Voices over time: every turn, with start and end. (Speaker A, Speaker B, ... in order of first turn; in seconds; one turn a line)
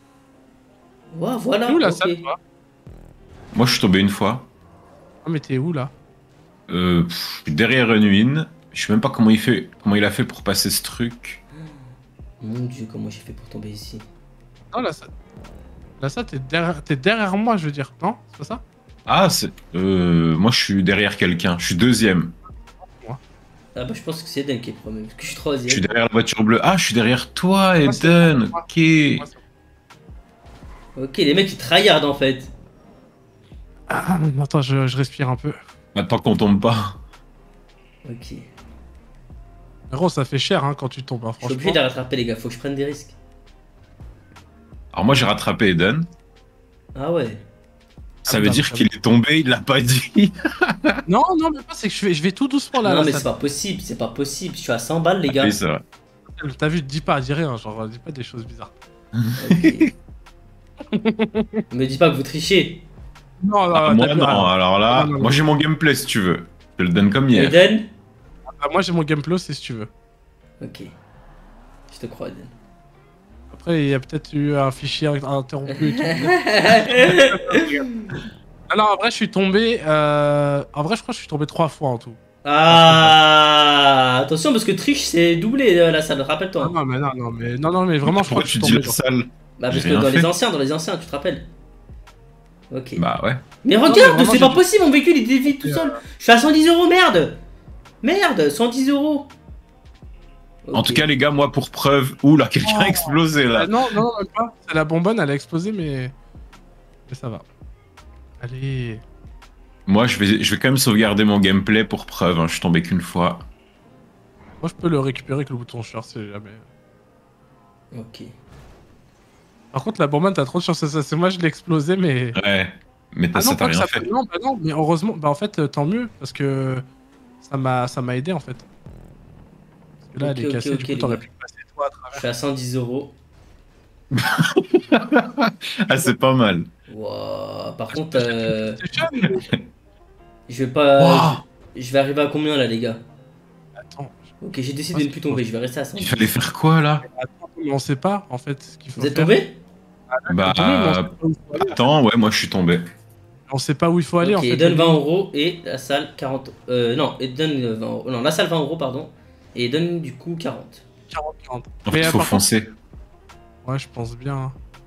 Speaker A: 1.1-2.2
Speaker B: 1.7-2.4
Speaker C: 3.5-4.5
Speaker B: 5.2-5.9
Speaker C: 6.7-11.4
Speaker A: 12.4-14.1
Speaker B: 14.7-15.1
Speaker B: 16.0-18.6
Speaker C: 19.1-22.4
Speaker B: 22.8-23.2
Speaker A: 23.8-25.9
Speaker C: 25.7-29.2
Speaker B: 27.8-28.6
Speaker A: 31.0-32.5
Speaker B: 33.9-35.6
Speaker C: 36.0-37.0
Speaker A: 38.0-38.5
Speaker B: 39.9-41.8
Speaker A: 41.4-43.2
Speaker C: 44.9-46.1
Speaker A: 47.0-47.5
Speaker B: 48.2-48.9
Speaker C: 48.3-51.0
Speaker B: 51.1-53.3
Speaker A: 52.8-55.6
Speaker C: 55.3-55.8
Speaker B: 56.4-58.7
Speaker A: 59.4-59.9
Speaker B: 60.9-61.6
Speaker A: 61.7-62.8
Speaker B: 63.4-65.4
Speaker C: 63.7-67.6
Speaker A: 67.3-67.9
Speaker B: 68.6-69.9
Speaker A: 70.6-71.0
Speaker A: 71.9-72.5
Speaker B: 73.5-78.0
Speaker A: 75.8-77.7
Speaker B: 78.7-83.2
Speaker A: 82.4-86.7
Speaker B: 86.6-89.0
Speaker C: 88.1-90.3
Speaker A: 89.6-91.5
Speaker A: 92.7-93.0
Speaker C: 93.0-93.5
Speaker A: 93.6-97.4
Speaker B: 93.8-94.6
Speaker B: 95.5-96.0
Speaker A: 98.0-99.3
Speaker A: 100.6-101.1
Speaker C: 100.7-103.8
Speaker B: 102.7-106.1
Speaker B: 107.1-107.4
Speaker B: 108.4-109.0
Speaker C: 109.9-113.5
Speaker B: 114.6-116.6
Speaker A: 117.9-118.3
Speaker B: 119.7-122.4
Speaker C: 122.3-124.1
Speaker B: 123.3-126.8
Speaker B: 127.4-128.7
Speaker B: 130.1-132.2
Speaker A: 130.2-131.2
Speaker A: 132.1-133.2
Speaker C: 134.1-136.7
Speaker A: 136.9-138.8
Speaker B: 137.9-139.5
Speaker A: 140.5-143.0
Speaker C: 141.0-141.4
Speaker B: 143.8-144.2
Speaker A: 144.4-146.3
Speaker B: 144.9-145.4
Speaker C: 146.0-147.1
Speaker B: 147.1-149.3
Speaker A: 149.0-149.6
Speaker B: 150.1-151.8
Speaker C: 150.3-152.9
Speaker B: 153.5-155.0
Speaker A: 154.2-160.8
Speaker B: 161.1-162.4
Speaker C: 161.9-162.7
Speaker B: 163.6-164.6